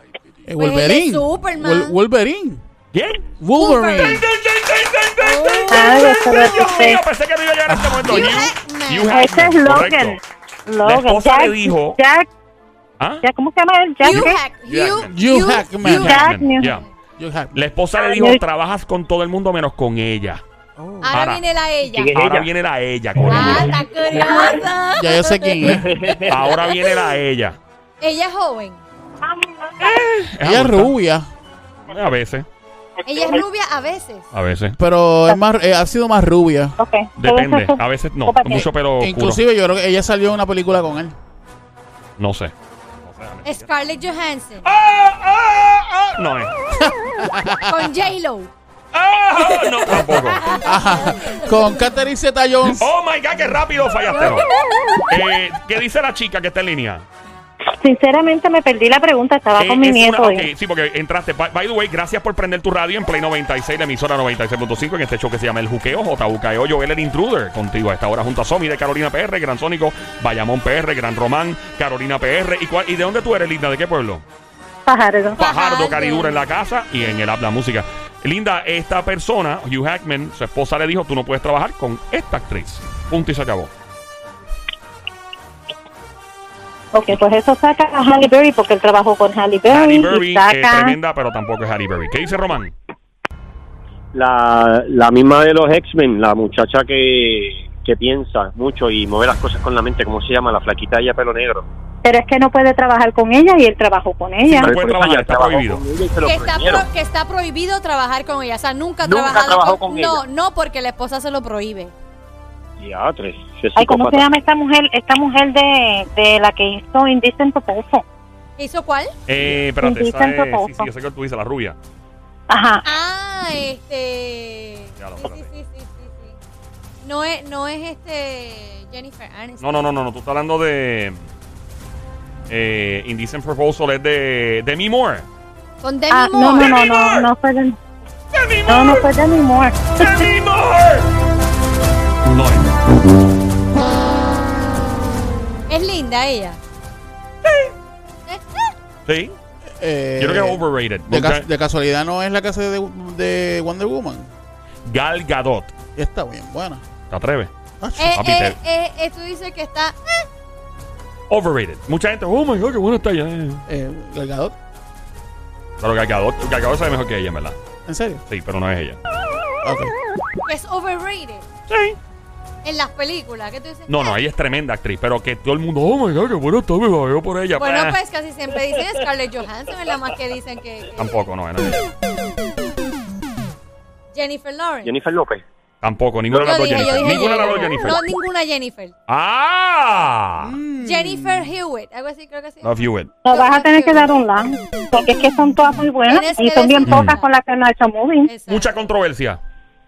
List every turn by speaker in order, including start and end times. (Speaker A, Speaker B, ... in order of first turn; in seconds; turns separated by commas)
Speaker A: 0.5-2.6, Speaker B: 0.6-2.0, Speaker C: 2.9-3.3, Speaker A: 3.4-4.2, Speaker B: 3.5-4.2, Speaker C: 3.9-10.2, Speaker B: 5.2-6.0, Speaker D: 5.7-7.0, Speaker A: 7.7-8.2, Speaker B: 8.1-9.3, Speaker D: 9.1-12.3, Speaker C: 10.8-12.0, Speaker C: 13.0-13.2, Speaker D: 13.2-14.4, Speaker B: 14.0-15.7, Speaker C: 14.1-15.1, Speaker A: 15.1-16.3, Speaker C: 15.8-16.9, Speaker D: 15.9-16.7, Speaker B: 16.6-16.9, Speaker A: 17.2-17.6, Speaker C: 17.5-20.4, Speaker D: 18.0-18.4, Speaker A: 20.8-21.1, Speaker B: 21.0-22.1, Speaker C: 21.1-21.4, Speaker E: 21.9-22.5, Speaker C: 22.1-23.8, Speaker B: 23.2-25.8, Speaker A: 24.9-26.0, Speaker E: 25.8-26.3, Speaker C: 26.2-27.6, Speaker B: 28.0-28.8, Speaker C: 29.8-30.9, Speaker A: 30.4-31.3, Speaker C: 31.9-32.5, Speaker B: 33.0-34.3, Speaker C: 34.3-34.8, Speaker A: 34.8-36.8, Speaker D: 36.8-38.7, Speaker C: 37.2-39.4, Speaker A: 39.0-41.1, Speaker C: 42.2-42.5, Speaker C: 43.0-43.6, Speaker B: 43.4-44.7, Speaker C: 44.6-46.6, Speaker A: 46.8-47.9, Speaker B: 47.6-48.5, Speaker C: 48.9-50.4, Speaker B: 49.9-51.8, Speaker A: 50.6-52.9, Speaker C: 52.7-54.5, Speaker B: 54.1-54.4, Speaker C: 55.1-57.0, Speaker D: 57.8-60.5, Speaker C: 59.5-74.2, Speaker D: 74.9-75.4, Speaker B: 75.3-76.5, Speaker C: 75.4-83.7, Speaker D: 86.9-91.0, Speaker C: 89.7-92.7, Speaker E: 94.1-101.7, Speaker D: 102.0-104.7, Speaker C: 104.4-105.8, Speaker E: 104.5-106.9, Speaker B: 106.2-111.9, Speaker E: 109.0-110.2, Speaker E: 112.8-114.3, Speaker D: 113.8-118.0, Speaker B: 118.6-119.1, Speaker C: 119.3-121.8, Speaker D: 119.8-120.9, Speaker D: 122.5-122.8, Speaker B: 122.8-126.4, Speaker C: 125.0-125.4, Speaker B: 127.0-129.8, Speaker C: 129.6-131.3, Speaker C: 132.5-135.2, Speaker B: 135.8-136.8, Speaker D: 136.1-137.8, Speaker C: 136.6-137.3, Speaker C: 138.3-139.1, Speaker D: 138.7-140.2, Speaker C: 140.0-141.1, Speaker C: 142.2-142.7, Speaker B: 145.7-146.6, Speaker C: 147.4-147.7, Speaker B: 148.3-148.7, Speaker C: 149.1-149.3, Speaker A: 149.7-154.3, Speaker C: 150.2-151.5, Speaker C: 154.8-155.7, Speaker A: 155.9-156.8, Speaker C: 157.1-157.5, Speaker A: 157.8-158.3, Speaker B: 158.0-160.3, Speaker C: 158.1-158.6, Speaker C: 161.3-163.6, Speaker A: 163.7-164.6, Speaker C: 165.8-167.6, Speaker A: 167.9-168.2, Speaker C: 168.3-169.0, Speaker A: 169.6-169.9, Speaker B: 170.4-171.4, Speaker C: 171.7-172.0, Speaker B: 172.6-174.2, Speaker C: 173.9-177.9, Speaker B: 177.6-181.3, Speaker C: 181.0-181.9, Speaker B: 184.1-184.9, Speaker E: 184.8-185.4, Speaker C: 185.8-188.0, Speaker E: 186.3-186.8, Speaker B: 186.3-188.9, Speaker C: 189.1-190.6, Speaker A: 190.4-191.5, Speaker B: 190.8-192.7, Speaker C: 192.6-193.1, Speaker D: 193.2-198.3, Speaker B: 193.3-194.2, Speaker B: 196.1-197.3, Speaker C: 196.8-197.1, Speaker B: 198.2-198.9, Speaker C: 198.5-199.4